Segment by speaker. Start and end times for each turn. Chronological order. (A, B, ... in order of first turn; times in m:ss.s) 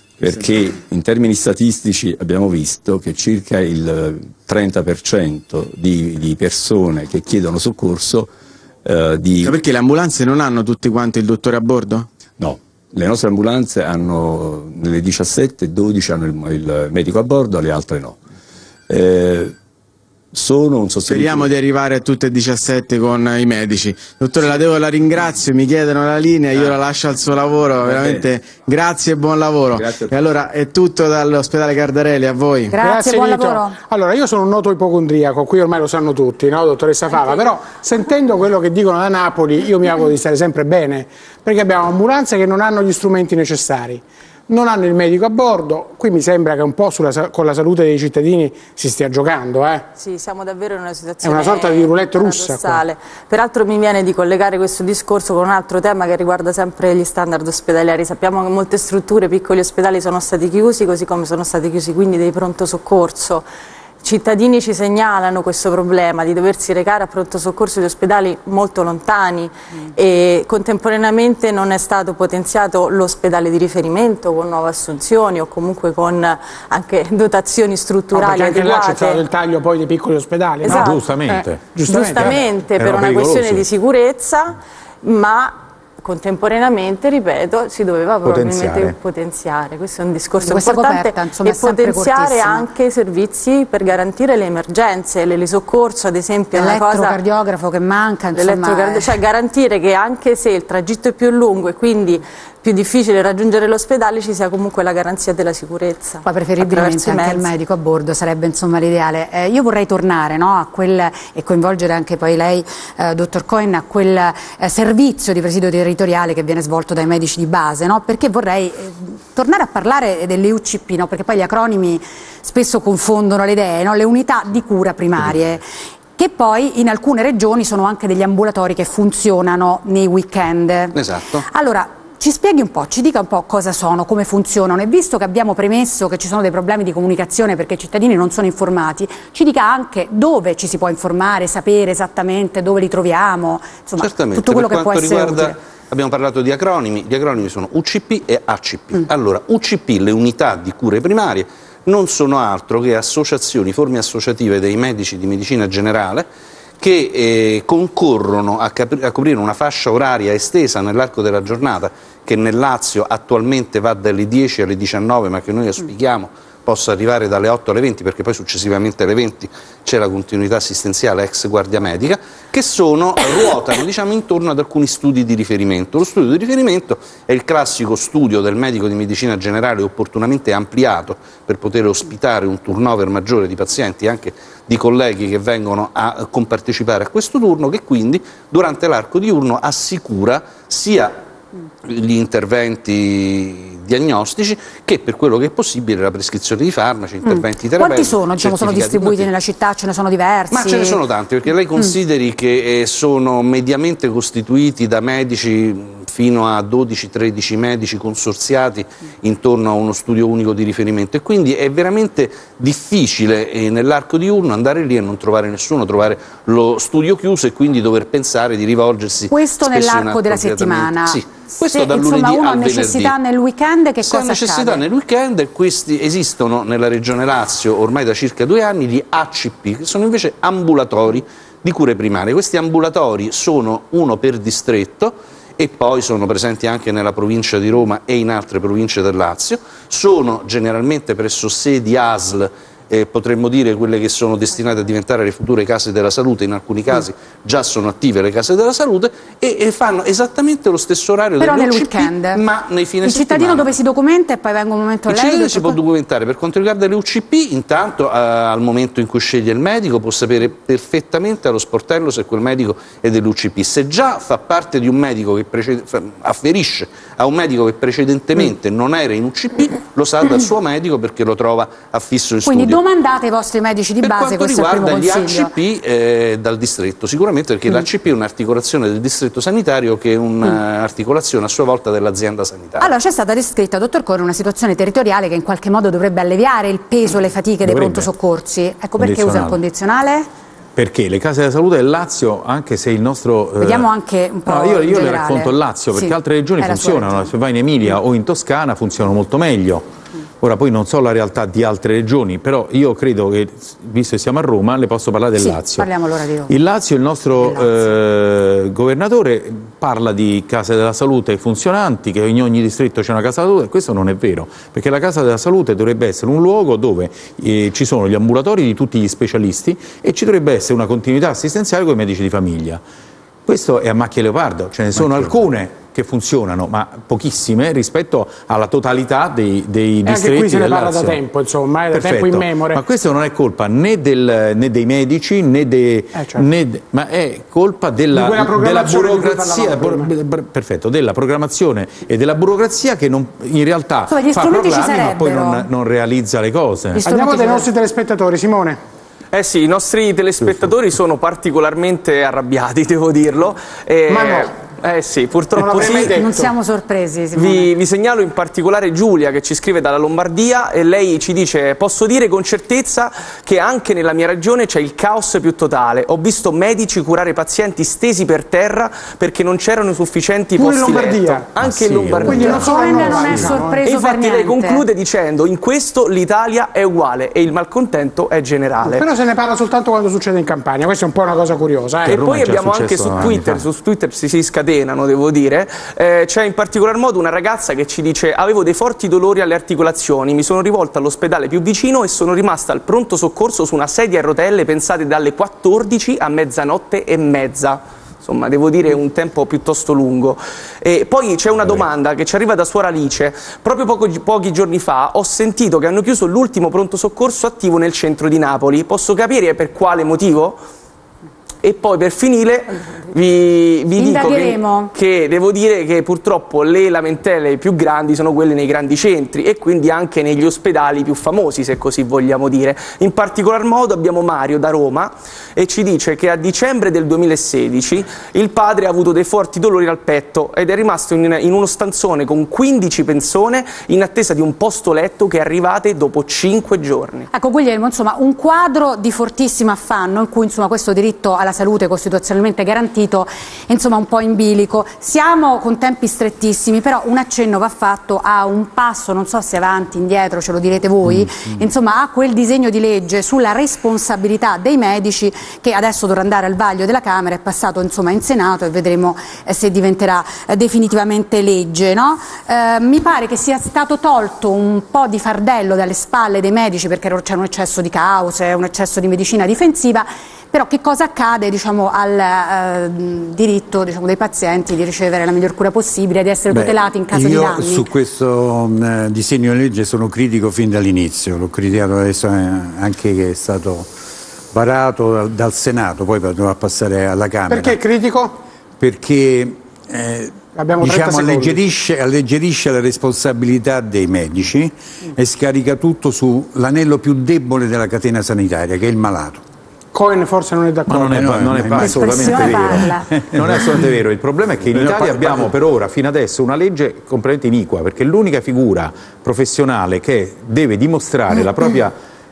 0:00.2-0:08.3 A
0:08.8-0:09.6 A
0:09.4-0:12.1 B
0:12.4-0:18.2 A
0:18.9-0:19.5 A
0:20.3-0:21.5 A
0:21.1-0:32.7 B
0:27.9-0:28.2 A
0:29.7-0:30.1 A
0:32.7-0:33.8 C
0:32.8-0:49.9 D
0:49.9-1:03.4 E
0:51.2-0:52.8 D
1:04.0-1:19.2 E
1:18.1-1:22.4 D
1:20.6-1:20.9 C
1:20.6-1:23.7 F
1:21.8-1:37.2 E
1:28.2-1:29.0 F
1:30.4-1:32.7 C
1:36.5-1:39.2 C
1:38.3-1:47.5 E
1:46.2-2:05.6 C
2:06.2-2:25.6 C
2:10.9-2:11.4 G
2:24.0-2:36.3 G
2:36.8-3:11.2 G
3:11.8-3:19.3 G
3:17.2-3:21.0 C
3:20.5-3:43.1 G
3:39.3-3:44.8 C
3:44.0-4:13.7 G
4:11.4-4:12.4 C
4:13.0-4:15.8 C
4:15.1-4:32.8 G
4:32.4-4:35.5 C
4:34.0-4:42.9 G
4:42.8-4:50.3 C
4:47.6-4:48.1 F
4:49.0-4:49.6 F
4:50.8-4:53.9 F
4:53.6-4:57.3 C
4:54.4-4:59.9 F
5:00.4-5:05.9 F
5:05.3-5:06.5 C
5:06.5-5:22.8 F
5:07.4-5:07.9 C
5:23.4-5:31.2 F
5:30.0-5:32.8 D
5:31.9-5:47.0 F
5:36.1-5:36.5 D
5:38.1-5:40.1 D
5:44.1-5:45.7 C
5:46.9-5:47.7 C
5:47.0-5:48.8 D
5:49.3-5:56.2 H
5:54.1-5:54.5 D
5:55.5-5:56.5 D
5:55.8-5:57.7 C
5:57.3-6:13.0 H
6:10.6-6:11.5 D
6:11.6-6:13.5 F
6:12.2-6:13.8 D
6:12.4-6:14.8 C
6:13.8-6:19.0 H
6:18.8-6:22.2 D
6:22.0-6:23.6 F
6:22.1-6:50.6 H
6:51.6-7:17.3 H
6:54.0-6:54.9 C
7:17.3-7:57.9 C
7:56.5-8:03.9 I
8:04.5-8:07.8 I
8:07.5-8:08.4 D
8:08.8-8:19.4 I
8:10.5-8:11.6 D
8:19.9-8:21.2 D
8:20.9-8:31.9 F
8:21.0-8:23.7 I
8:21.8-8:23.1 C
8:24.6-8:25.5 I